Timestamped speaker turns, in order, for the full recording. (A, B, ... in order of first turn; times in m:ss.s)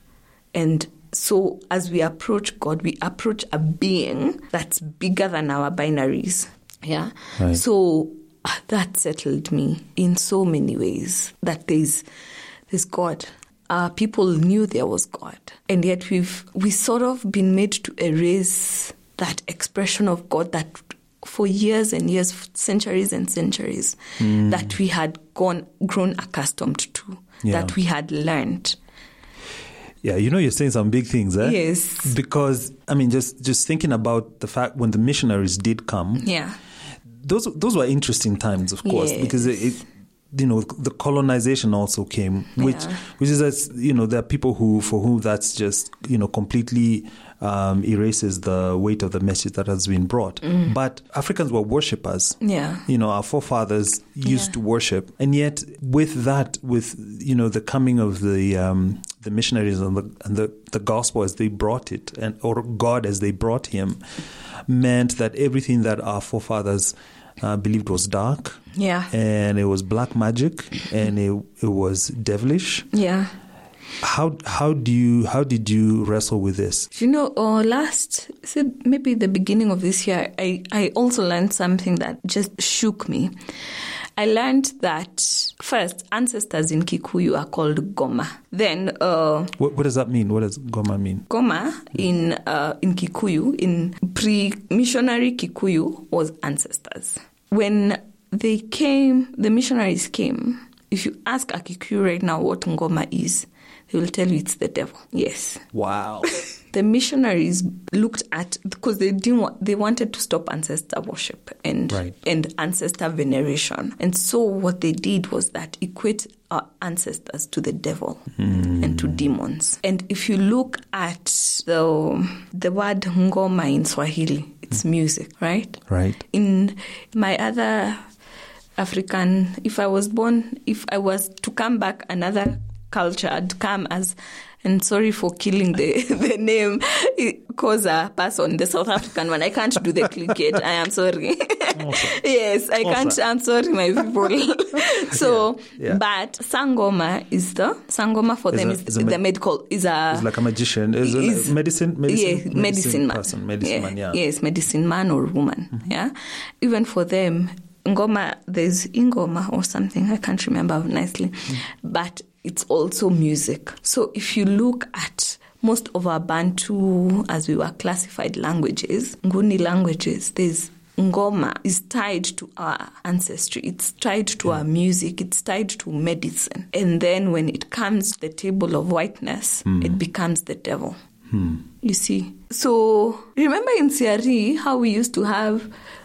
0:00.5-0:12.0 A
0:12.7-0:28.8 A
0:24.2-0:24.7 B
0:27.4-0:27.7 B
0:30.0-0:36.3 B
0:31.4-0:32.1 A
0:36.2-0:36.6 A
0:37.2-1:04.0 B
0:38.8-0:39.8 A
0:42.6-0:43.0 A
0:52.4-0:52.8 A
0:54.2-0:54.5 A
1:04.6-1:12.9 B
1:08.7-1:09.1 A
1:12.9-1:13.3 A
1:14.0-1:16.9 B
1:16.9-1:23.3 A
1:24.2-1:29.5 A
1:29.6-1:31.2 B
1:31.3-1:45.7 A
1:45.7-1:46.3 B
1:46.7-2:08.0 A
1:58.4-1:59.2 B
2:05.9-2:06.2 B
2:08.8-2:30.3 A
2:21.7-2:22.2 B
2:22.8-2:23.2 B
2:25.1-2:26.0 B
2:28.5-2:29.2 B
2:30.1-2:34.2 B
2:31.0-2:31.5 A
2:32.0-3:01.0 A
2:59.7-3:00.0 B
3:01.3-3:01.6 B
3:01.8-3:05.7 A